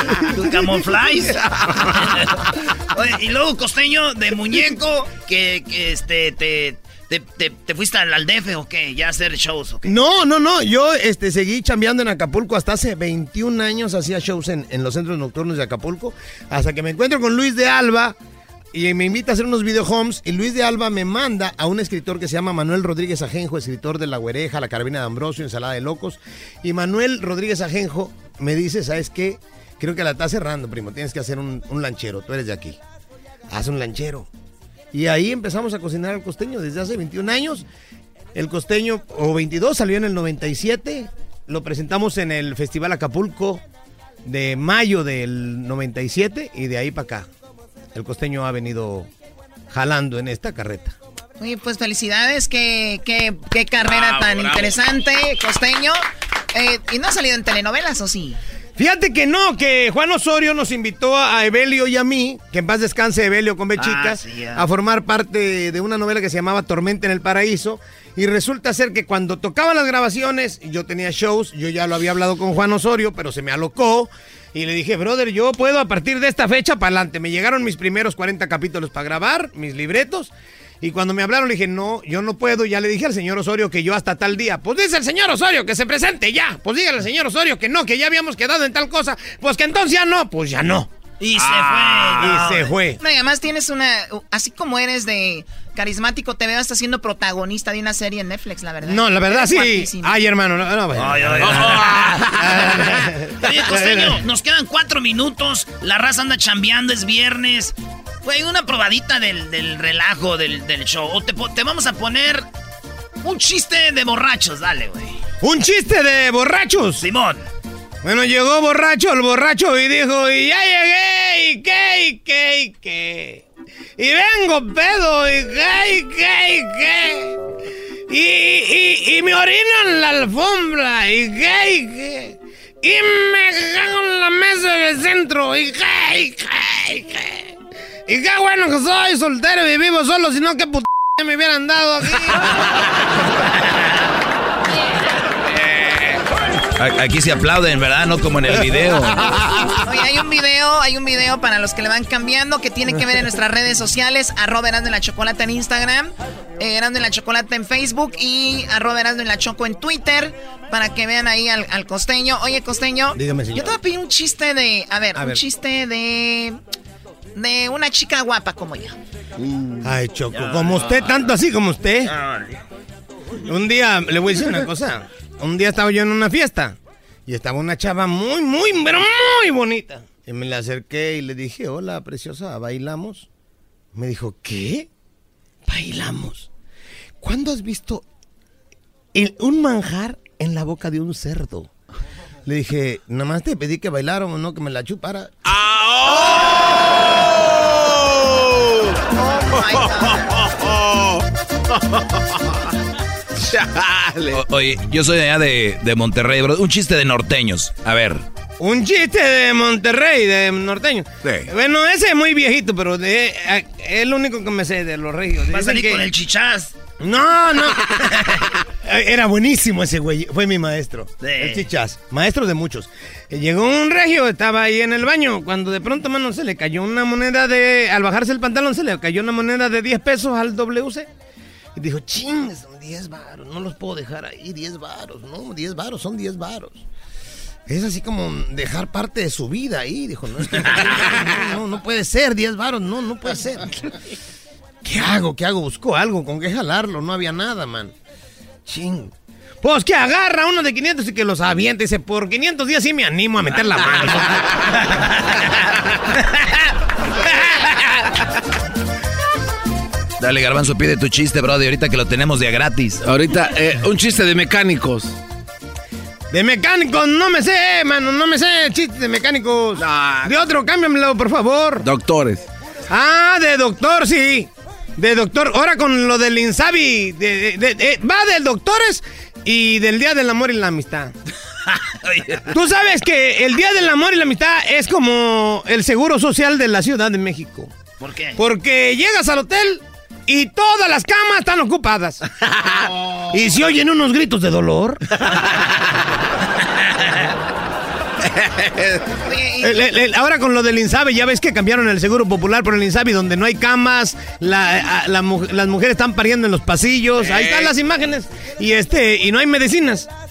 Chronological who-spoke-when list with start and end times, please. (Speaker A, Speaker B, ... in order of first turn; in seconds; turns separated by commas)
Speaker A: 0.2-0.8, Speaker B: 0.2-9.9, Speaker A: 9.8-18.2, Speaker A: 18.7-32.8, Speaker A: 33.5-34.3, Speaker A: 34.9-37.6, Speaker A: 38.4-43.6, Speaker A: 44.2-47.3, Speaker A: 47.9-49.1, Speaker A: 49.7-51.0, Speaker C: 51.4-56.0, Speaker D: 53.8-54.7, Speaker C: 56.5-58.4, Speaker A: 58.8-90.9, Speaker B: 63.8-64.7, Speaker B: 91.2-92.7, Speaker D: 91.4-92.3, Speaker A: 92.2-93.0, Speaker C: 93.0-100.2, Speaker A: 98.8-104.2, Speaker B: 101.0-102.3, Speaker D: 101.4-102.5, Speaker B: 103.4-112.5, Speaker B: 113.2-115.2, Speaker A: 115.4-117.0, Speaker B: 117.0-117.5, Speaker A: 118.0-123.5, Speaker A: 124.0-127.4, Speaker A: 128.1-137.5, Speaker A: 138.1-142.5, Speaker E: 146.8-149.3, Speaker A: 149.3-149.6, Speaker C: 149.8-166.6, Speaker A: 163.2-163.8, Speaker A: 165.2-165.4, Speaker C: 167.4-169.0, Speaker A: 169.8-172.1, Speaker B: 170.3-171.3, Speaker B: 172.1-172.6, Speaker A: 173.4-183.3, Speaker A: 183.9-184.9, Speaker A: 185.7-186.5, Speaker A: 187.2-188.0, Speaker A: 189.1-191.7, Speaker A: 192.5-195.3, Speaker D: 195.5-201.2, Speaker C: 199.1-200.2, Speaker D: 203.4-204.4, Speaker E: 204.3-208.2, Speaker A: 208.6-216.1, Speaker E: 211.2-211.5, Speaker B: 215.5-216.7, Speaker A: 217.0-231.1, Speaker B: 221.2-221.7, Speaker A: 231.8-236.8, Speaker A: 237.7-243.8, Speaker A: 244.8-247.9, Speaker A: 248.7-254.4, Speaker B: 255.0-255.5, Speaker E: 260.2-263.0, Speaker D: 263.0-265.2, Speaker A: 266.3-271.9, Speaker D: 269.8-270.5, Speaker D: 271.8-272.5, Speaker A: 272.9-281.1, Speaker B: 281.7-282.5, Speaker A: 282.5-287.7, Speaker B: 288.0-288.4, Speaker A: 288.4-292.2, Speaker A: 293.3-295.0, Speaker D: 298.3-299.1, Speaker C: 299.3-299.7, Speaker A: 299.6-310.1, Speaker D: 307.2-307.8